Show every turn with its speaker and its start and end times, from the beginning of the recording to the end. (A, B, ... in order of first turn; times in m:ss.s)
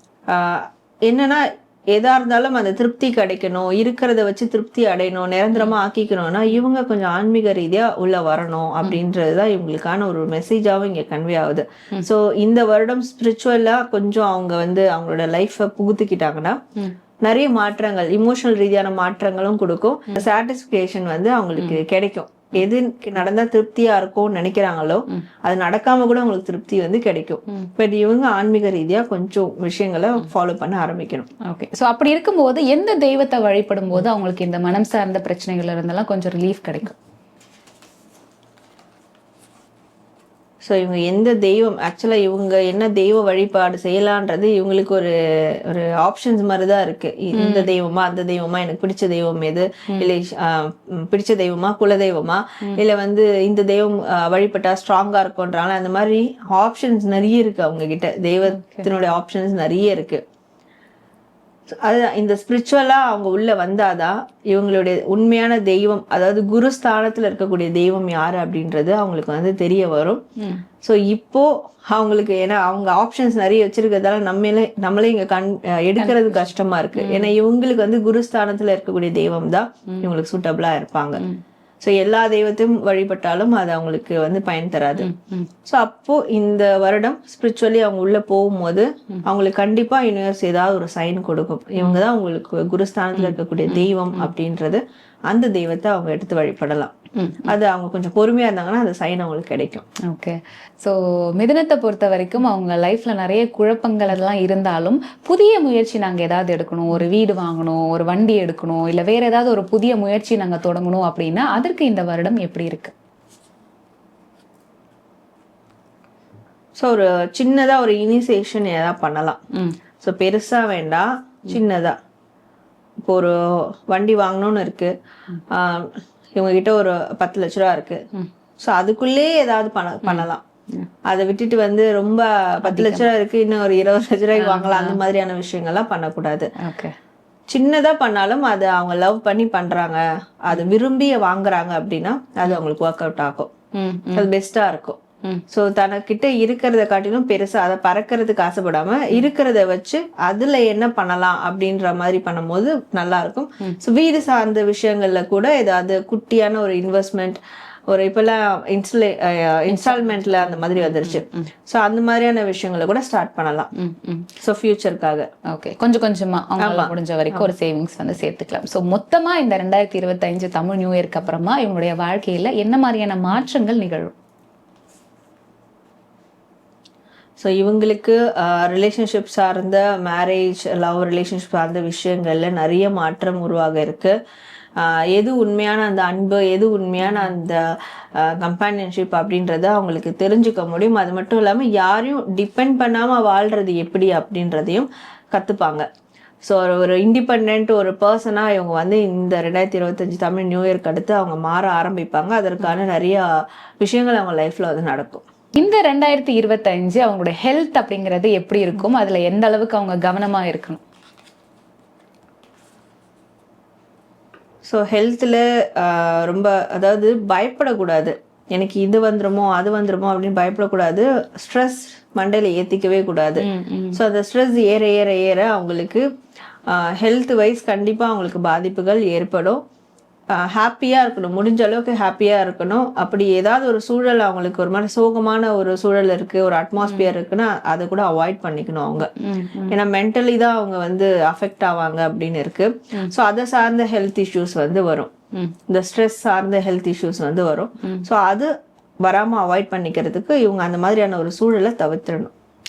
0:00.3-0:16.6 A
0:17.2-0:31.3 A
0:31.4-0:37.0 B
0:40.7-1:00.2 A
0:47.3-0:47.7 B
0:58.5-0:58.9 B
1:01.8-1:10.2 A
1:10.4-1:10.6 B
1:10.8-1:21.2 A
1:16.0-1:17.3 B
1:21.8-1:25.1 A
1:25.0-1:25.5 B
1:25.7-1:36.9 A
1:33.2-1:34.3 B
1:37.2-1:37.5 B
1:37.5-1:39.9 A
1:40.1-1:52.9 B
1:56.8-1:59.4 A
2:00.0-2:02.0 A
2:03.1-2:04.9 A
2:05.5-2:08.0 A
2:08.6-2:10.4 A
2:10.0-2:10.9 B
2:11.1-2:16.5 A
2:12.6-2:13.1 B
2:14.4-2:15.0 B
2:16.6-2:16.9 B
2:17.5-2:23.5 A
2:23.8-2:24.3 B
2:24.2-2:25.0 A
2:25.5-2:43.7 A
2:39.7-2:41.5 B
2:43.8-2:44.3 B
2:44.4-2:45.3 A
2:45.5-2:54.1 B
2:46.6-2:47.5 A
2:57.4-3:04.1 A
3:04.8-3:07.6 A
3:07.0-3:07.3 B
3:08.2-3:15.9 A
3:16.4-3:25.2 A
3:25.6-3:30.8 B
3:34.7-3:46.0 A
3:43.4-3:44.0 B
3:46.7-3:49.6 A
3:50.3-3:59.1 A
3:56.8-3:57.1 B
3:59.2-3:59.8 B
3:59.7-4:05.1 A
4:05.7-4:08.5 A
4:09.0-4:12.3 A